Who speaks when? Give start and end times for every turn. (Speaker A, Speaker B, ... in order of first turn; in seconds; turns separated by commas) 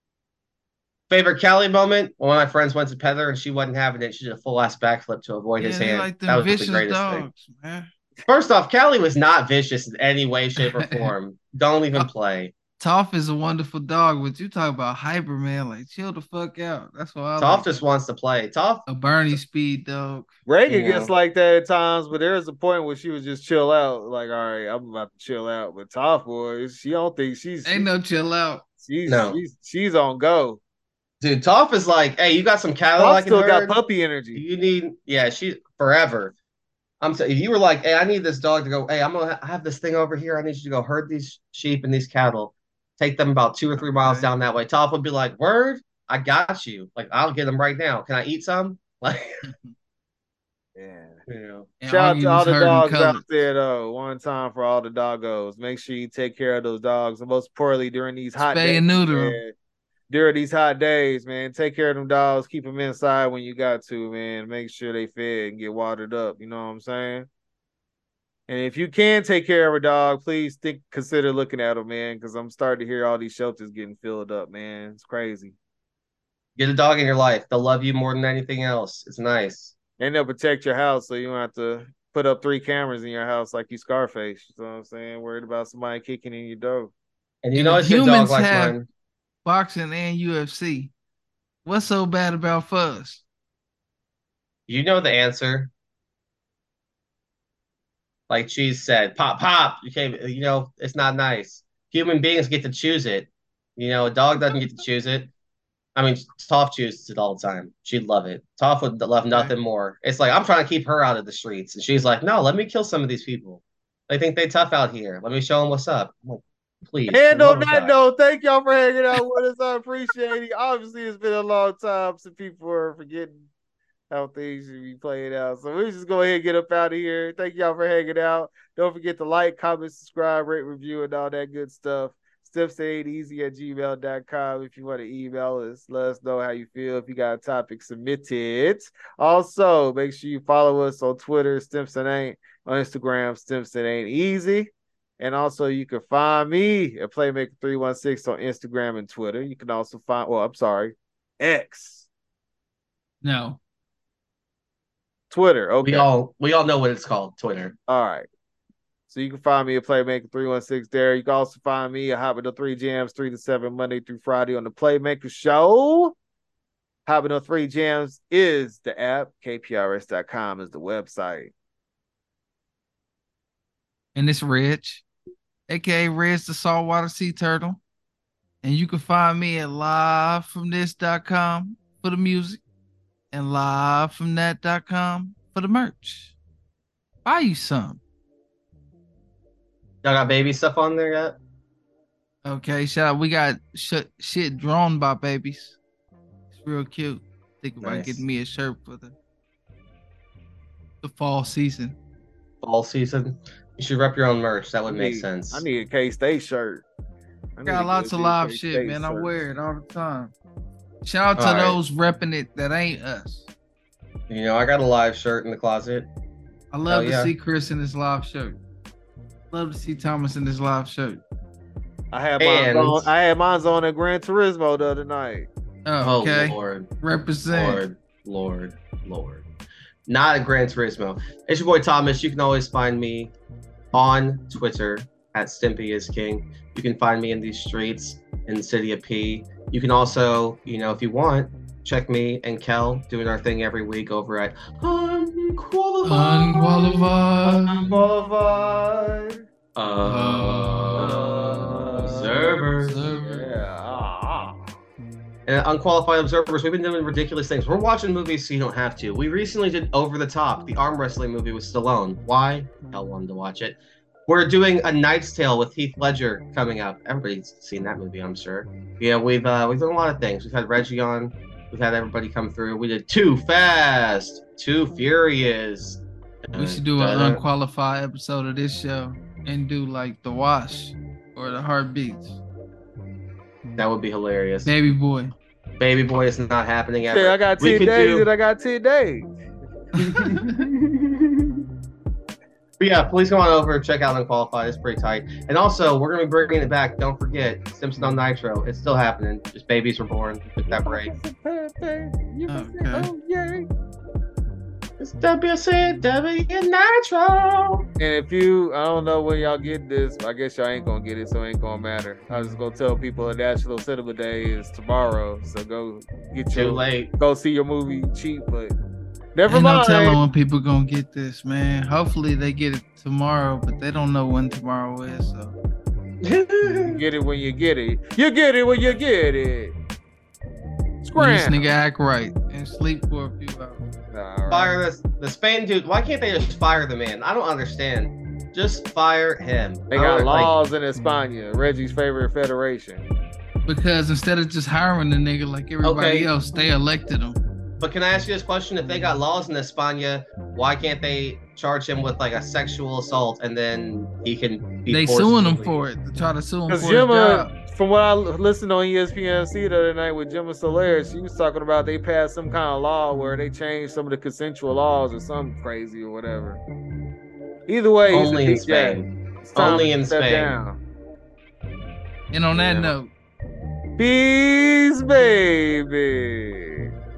Speaker A: 1.1-7.3, Speaker B: 5.6-7.9, Speaker A: 8.2-12.5, Speaker B: 10.6-11.1, Speaker B: 12.8-17.8, Speaker A: 17.4-18.9, Speaker B: 18.9-20.3, Speaker C: 20.5-27.9, Speaker A: 20.7-21.1, Speaker B: 27.6-28.6, Speaker C: 28.8-30.6, Speaker A: 29.1-29.4, Speaker A: 31.2-33.8, Speaker C: 33.0-34.4, Speaker A: 34.3-36.3, Speaker A: 37.0-49.4, Speaker B: 44.0-44.2, Speaker B: 49.4-49.7, Speaker C: 50.8-51.2, Speaker A: 51.3-51.7, Speaker B: 51.8-53.2, Speaker C: 51.9-59.5, Speaker B: 58.4-59.4, Speaker C: 60.1-67.3, Speaker C: 68.5-75.5, Speaker A: 76.6-79.7, Speaker C: 80.0-86.9, Speaker A: 87.4-88.9, Speaker B: 87.5-88.8, Speaker B: 89.4-90.9, Speaker B: 91.6-93.2, Speaker A: 94.7-95.7, Speaker A: 98.3-105.3, Speaker A: 106.0-118.0, Speaker C: 117.1-123.5, Speaker C: 124.1-152.1, Speaker B: 153.2-153.6, Speaker C: 155.3-156.1, Speaker A: 155.8-157.7, Speaker C: 157.9-158.3, Speaker C: 159.1-166.1, Speaker C: 167.1-171.5, Speaker B: 174.1-175.0, Speaker B: 175.7-177.8, Speaker B: 178.6-182.6, Speaker B: 183.3-186.3, Speaker B: 187.2-188.0, Speaker A: 190.0-191.4, Speaker B: 192.4-195.8, Speaker B: 196.5-199.1, Speaker A: 197.8-198.2, Speaker B: 201.0-202.0, Speaker A: 202.6-205.6, Speaker C: 204.8-206.8, Speaker C: 207.6-209.3, Speaker B: 207.6-210.3, Speaker B: 211.0-213.5, Speaker A: 211.3-211.8, Speaker A: 214.3-216.1, Speaker B: 216.7-218.6, Speaker A: 216.9-217.3, Speaker B: 219.5-221.2, Speaker C: 222.1-225.5, Speaker A: 222.4-223.1, Speaker B: 225.8-227.8, Speaker A: 226.0-226.9, Speaker A: 227.5-229.4, Speaker A: 230.1-233.3, Speaker A: 233.9-248.3, Speaker B: 246.0-247.9, Speaker C: 248.0-249.3, Speaker A: 249.8-253.1, Speaker B: 250.0-252.2, Speaker C: 250.9-252.5, Speaker B: 252.8-253.5, Speaker C: 253.1-254.6, Speaker A: 255.4-277.4, Speaker B: 276.5-282.4, Speaker A: 283.8-284.7, Speaker B: 284.6-285.3, Speaker A: 285.8-288.3, Speaker C: 287.1-289.3, Speaker B: 290.0-290.6, Speaker A: 290.1-290.4, Speaker C: 290.1-290.5, Speaker A: 292.8-301.1, Speaker C: 300.6-303.7, Speaker B: 302.5-303.1, Speaker A: 305.0-307.9, Speaker C: 308.0-318.8, Speaker A: 316.5-317.1, Speaker C: 319.3-320.2, Speaker B: 319.5-325.6, Speaker A: 326.2-327.0, Speaker C: 326.8-329.7, Speaker C: 331.0-331.6, Speaker B: 331.1-333.8, Speaker C: 334.1-334.8, Speaker A: 334.5-340.5, Speaker C: 339.9-343.0, Speaker B: 343.6-347.4, Speaker A: 345.8-346.3, Speaker A: 347.8-355.8, Speaker B: 354.9-357.5, Speaker C: 356.7-366.6, Speaker C: 367.7-370.8, Speaker A: 368.1-370.6, Speaker B: 372.3-373.1, Speaker A: 372.5-372.9, Speaker C: 374.0-376.9